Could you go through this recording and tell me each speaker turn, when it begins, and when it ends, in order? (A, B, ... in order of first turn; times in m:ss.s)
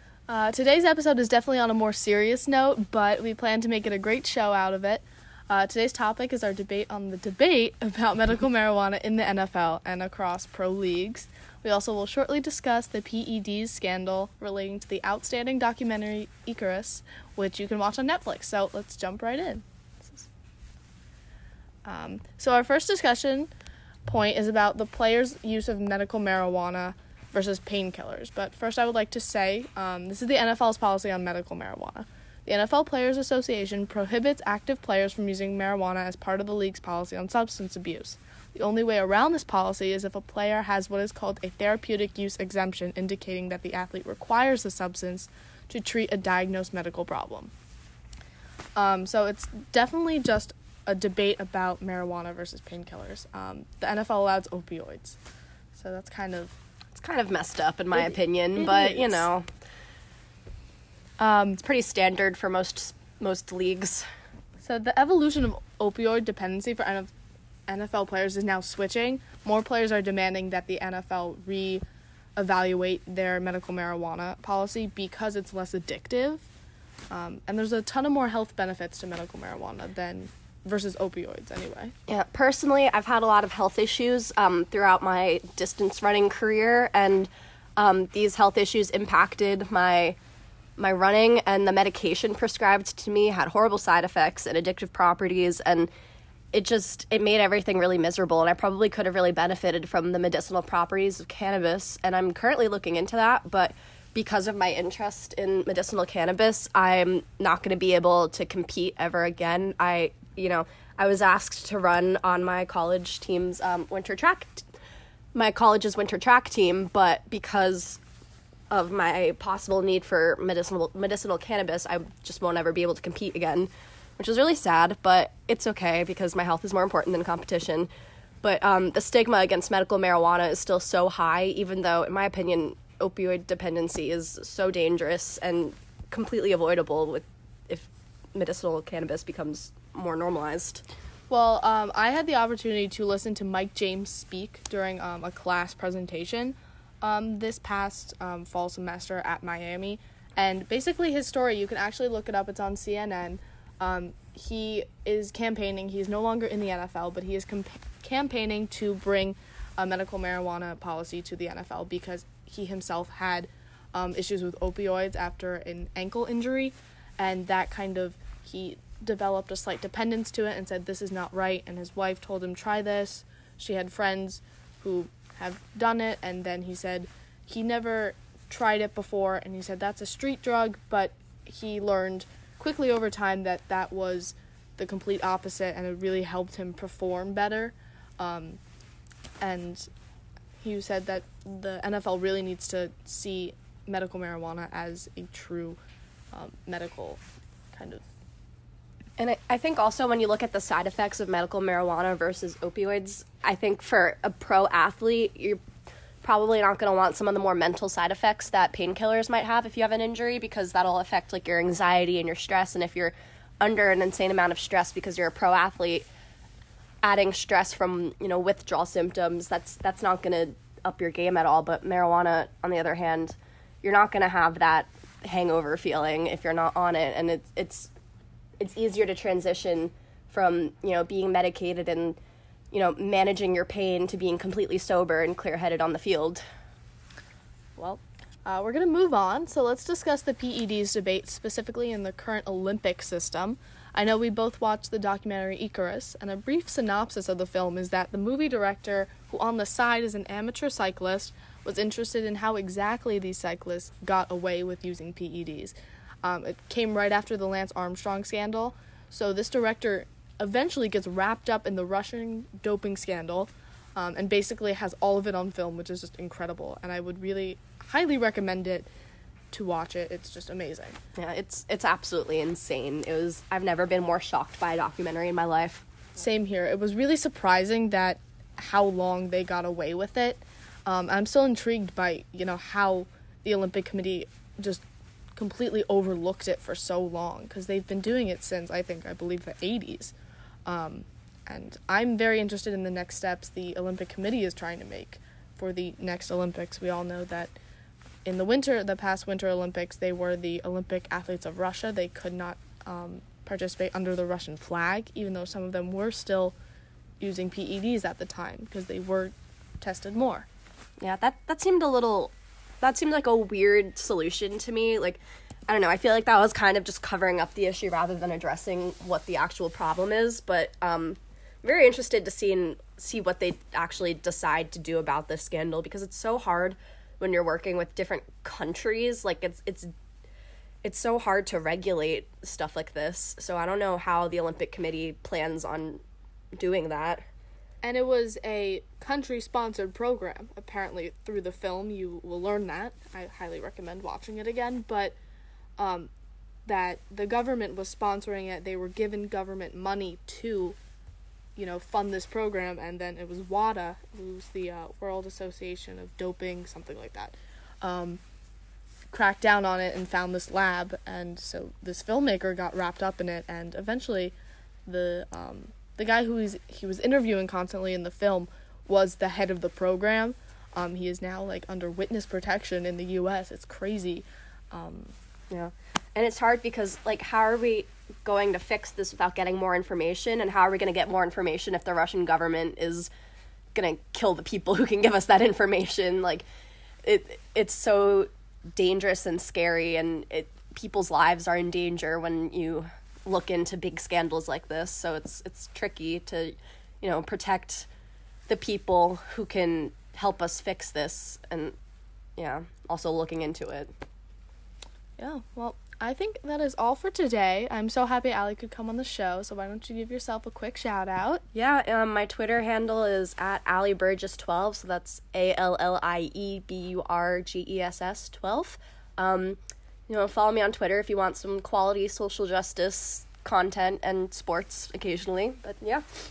0:00.3-0:20.3 A
0:21.8-0:23.5 A
0:24.0-0:47.5 A
0:48.8-0:55.2 A
0:55.7-0:56.5 A
0:56.9-0:59.4 B
0:57.9-0:59.3 A
1:01.2-1:01.6 A
1:01.6-1:04.0 B
1:04.6-1:07.1 A
1:07.7-1:11.8 A
1:12.4-1:16.4 A
1:17.1-1:21.9 A
1:22.1-1:30.2 B
1:30.8-1:35.9 B
1:36.5-1:54.6 B
1:55.3-1:58.0 B
1:58.7-2:07.9 B
2:08.4-2:20.8 B
2:21.3-3:08.6 A
3:09.4-3:09.9 A
3:10.6-3:15.8 A
3:16.3-3:17.2 A
3:17.7-3:18.0 A
3:19.2-3:25.6 B
3:26.2-3:36.1 B
3:37.0-3:47.9 B
3:48.6-3:52.2 B
3:52.7-3:56.4 B
3:57.8-4:28.9 A
4:29.5-4:31.0 A
4:31.2-4:35.8 B
4:36.2-4:44.8 A
4:45.4-4:50.1 A
4:50.6-4:57.5 A
4:58.2-5:06.6 A
5:07.2-5:10.5 A
5:11.0-5:29.9 B
5:30.8-5:36.0 B
5:36.5-5:37.2 B
5:37.8-5:45.2 A
5:45.8-5:46.1 A
5:46.6-5:50.8 A
5:51.6-5:58.2 A
5:59.1-6:04.3 A
6:04.8-6:15.1 A
6:15.5-6:23.1 B
6:23.7-6:26.4 B
6:27.0-6:37.9 B
6:38.5-6:41.7 B
6:42.4-6:43.9 B
6:45.2-6:51.4 A
6:51.5-7:06.0 B